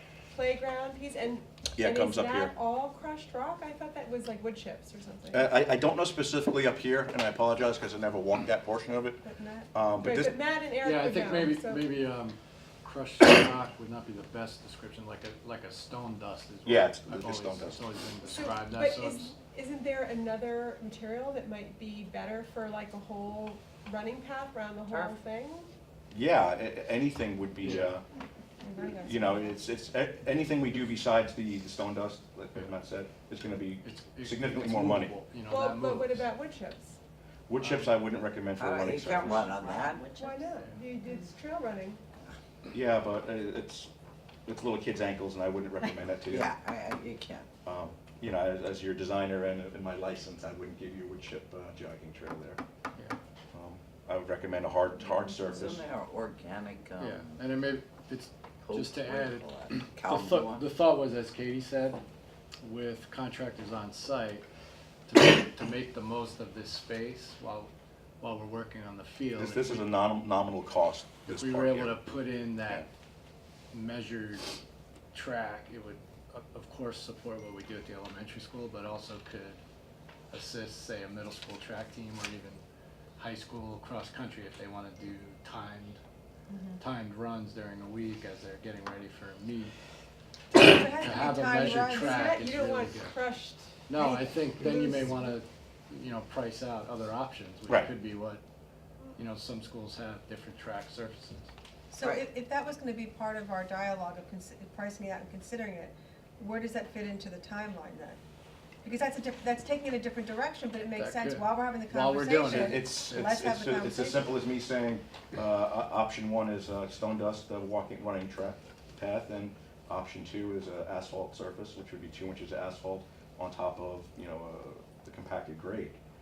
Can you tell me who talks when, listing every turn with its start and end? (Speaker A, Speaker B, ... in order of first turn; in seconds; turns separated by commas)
Speaker A: 0.3-5.6, Speaker B: 1.8-2.5, Speaker B: 5.3-9.2, Speaker C: 9.2-9.7, Speaker B: 9.7-10.3, Speaker A: 10.0-11.9, Speaker D: 10.8-19.3, Speaker B: 16.6-17.8, Speaker A: 18.2-25.7, Speaker B: 26.1-28.0, Speaker D: 27.6-27.9, Speaker C: 28.6-29.5, Speaker B: 29.0-35.2, Speaker D: 33.8-36.3, Speaker A: 35.5-37.0, Speaker B: 37.5-39.5, Speaker D: 37.6-38.0, Speaker E: 38.6-40.1, Speaker A: 39.9-42.0, Speaker D: 40.4-40.8, Speaker B: 42.7-43.9, Speaker B: 44.5-46.5, Speaker E: 46.3-47.5, Speaker B: 47.6-52.6, Speaker B: 53.5-55.9, Speaker E: 55.1-57.4, Speaker D: 57.0-62.0, Speaker E: 58.7-60.6, Speaker D: 62.6-64.5, Speaker D: 65.1-69.9, Speaker B: 69.3-72.0, Speaker D: 71.3-72.9, Speaker D: 73.7-74.5, Speaker D: 75.1-79.6, Speaker D: 80.3-82.6, Speaker D: 83.2-86.0, Speaker C: 86.5-86.8, Speaker D: 86.8-89.7, Speaker C: 90.5-92.5, Speaker D: 90.7-93.1, Speaker A: 92.0-95.4, Speaker D: 93.9-98.4, Speaker C: 94.0-94.3, Speaker D: 99.2-101.5, Speaker C: 101.9-108.2, Speaker E: 102.0-102.3, Speaker C: 108.8-114.3, Speaker D: 111.0-113.3, Speaker B: 112.5-126.0